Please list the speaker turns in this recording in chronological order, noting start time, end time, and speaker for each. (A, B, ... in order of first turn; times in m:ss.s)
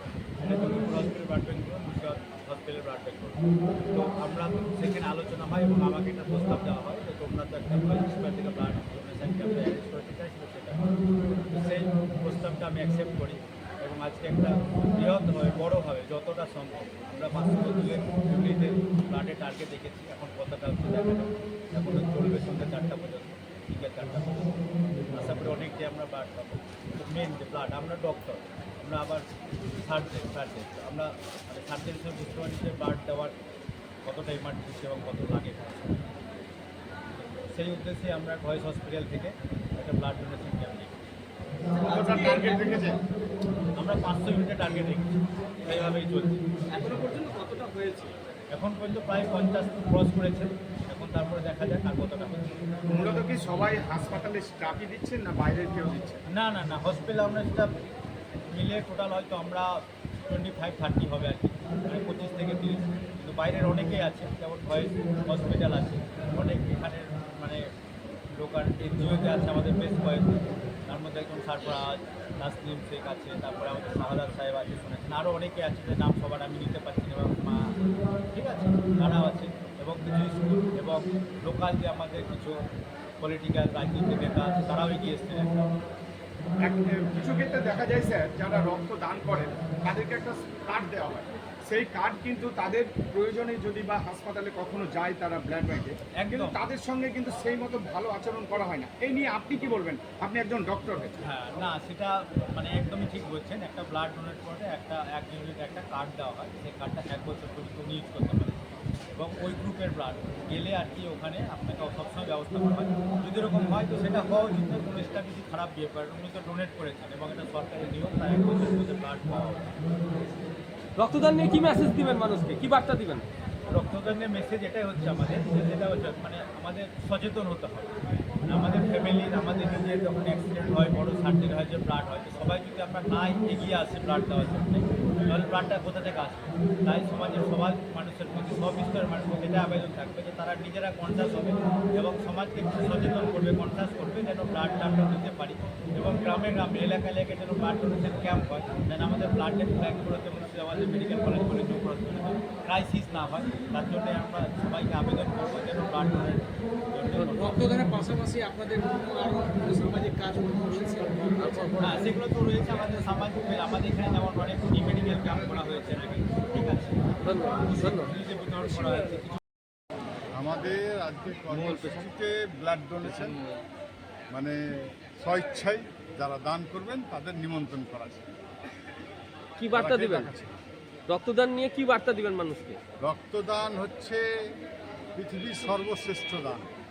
0:00.4-0:10.9 A
0:11.5-0:24.5 A
0:25.1-0:29.3 A
0:29.8-0:33.3 A
0:34.0-0:36.0 A
0:37.5-0:41.0 A
0:41.8-0:42.6 B
0:41.9-0:43.0 C
0:43.8-0:45.1 A
0:45.6-0:46.4 A
0:46.8-0:48.1 B
0:48.5-0:52.6 A
0:52.9-0:56.2 B
0:56.3-0:57.7 A
0:58.5-1:07.7 A
1:08.3-1:17.8 A
1:18.3-1:22.6 A
1:23.2-1:25.6 A
1:26.6-1:41.2 B
1:36.2-1:36.6 A
1:41.2-1:48.6 A
1:49.2-1:59.7 A
2:01.0-2:03.2 D
2:03.7-2:37.8 A
2:37.5-2:42.0 E
2:41.4-2:41.8 D
2:41.8-2:47.1 A
2:47.2-2:48.0 D
2:47.6-2:49.4 A
2:50.3-2:53.4 C
2:51.5-2:52.0 D
2:53.1-2:53.4 D
2:54.3-2:58.3 C
2:59.6-3:00.3 D
2:59.7-3:00.5 C
3:01.1-3:02.8 D
3:03.0-3:04.2 C
3:05.1-3:06.7 C